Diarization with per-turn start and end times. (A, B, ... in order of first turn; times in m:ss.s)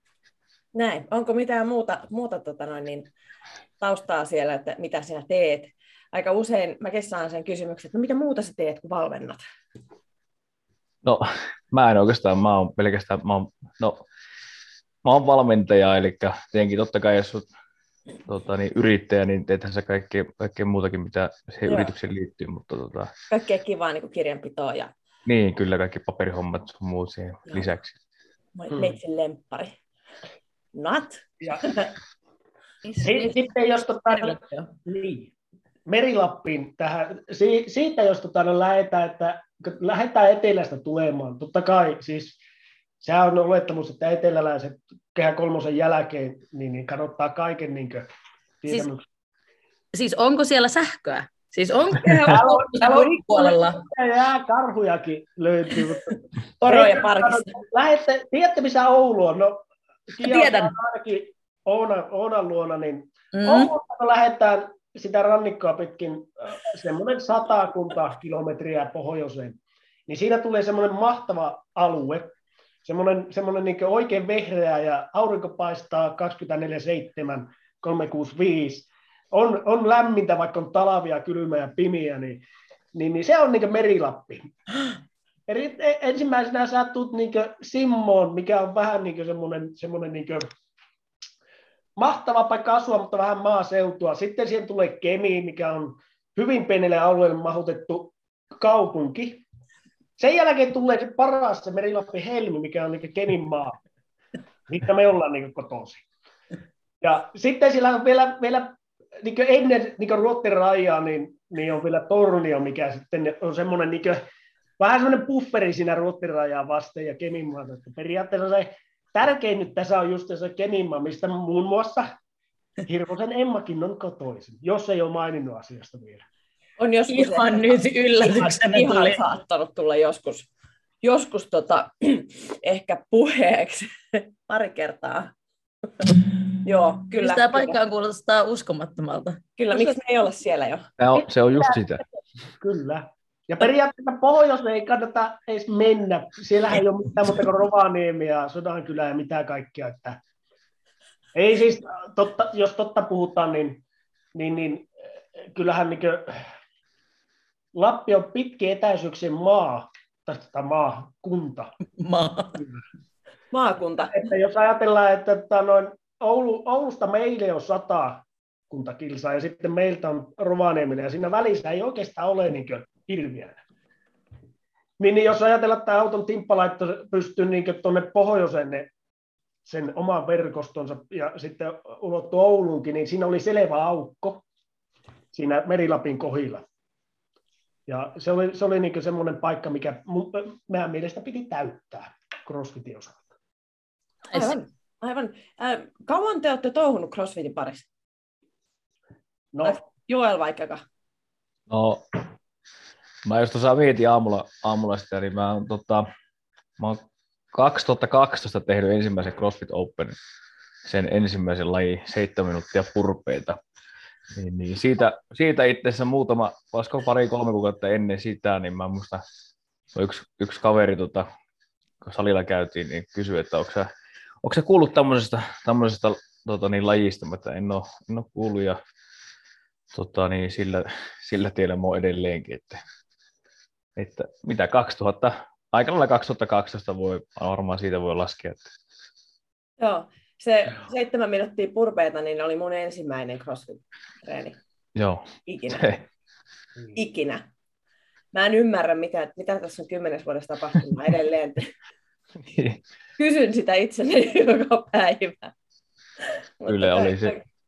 0:00.7-0:03.1 A
0:03.8-0:09.4 A
0:11.0-0:14.0 B
0:15.0-0:17.5 B
0:18.3-0:23.1 B
0:21.6-0:21.9 A
0:23.3-0:24.9 A
0:25.2-0:27.9 B
0:28.6-0:29.8 A
0:30.7-0:31.9 A
0:32.8-0:33.4 C
0:33.0-0:35.3 D
0:34.1-0:34.7 C
0:35.9-0:42.4 D
0:43.0-0:48.0 D
0:48.6-0:49.0 D
0:49.9-0:53.8 C
0:52.1-1:24.5 D
0:56.6-0:57.5 A
1:00.2-1:00.7 C
1:03.3-1:03.7 C
1:25.5-1:30.4 D
1:32.0-1:39.4 D
1:40.2-1:43.8 D
1:44.7-1:46.0 D
1:47.0-1:54.2 D
1:54.8-2:02.1 D
2:02.8-2:06.2 D
2:06.8-2:10.5 A
2:07.1-2:09.2 C
2:11.0-2:15.3 A
2:16.0-2:17.8 A
2:17.2-2:19.4 C
2:19.6-2:20.9 A
2:21.0-2:22.0 B
2:22.6-2:30.2 D
2:31.3-2:33.8 D
2:34.3-2:36.4 D
2:37.7-2:41.7 D
2:42.0-2:42.6 C
2:43.5-2:44.3 A
2:44.1-2:53.6 D
2:55.0-2:58.9 D
2:59.6-3:04.4 D
3:05.3-3:06.6 D
3:07.9-3:13.2 D
3:14.3-3:17.8 A
3:14.3-3:14.6 C
3:19.5-3:19.8 D
3:19.6-3:20.8 A
3:21.7-3:22.0 B
3:23.2-3:26.0 B
3:26.8-3:30.2 B
3:30.8-3:33.6 B
3:34.3-3:39.2 B
3:39.9-3:41.3 B
3:42.0-3:43.9 B
3:44.4-3:48.8 B
3:49.9-3:52.8 B
3:54.0-3:58.7 B
3:59.8-4:04.6 A
4:04.9-4:06.0 B
4:05.4-4:05.9 A
4:06.9-4:07.5 A
4:08.3-4:11.7 A
4:12.4-4:12.8 B
4:13.2-4:15.5 A
4:16.6-4:17.4 A
4:16.7-4:17.4 B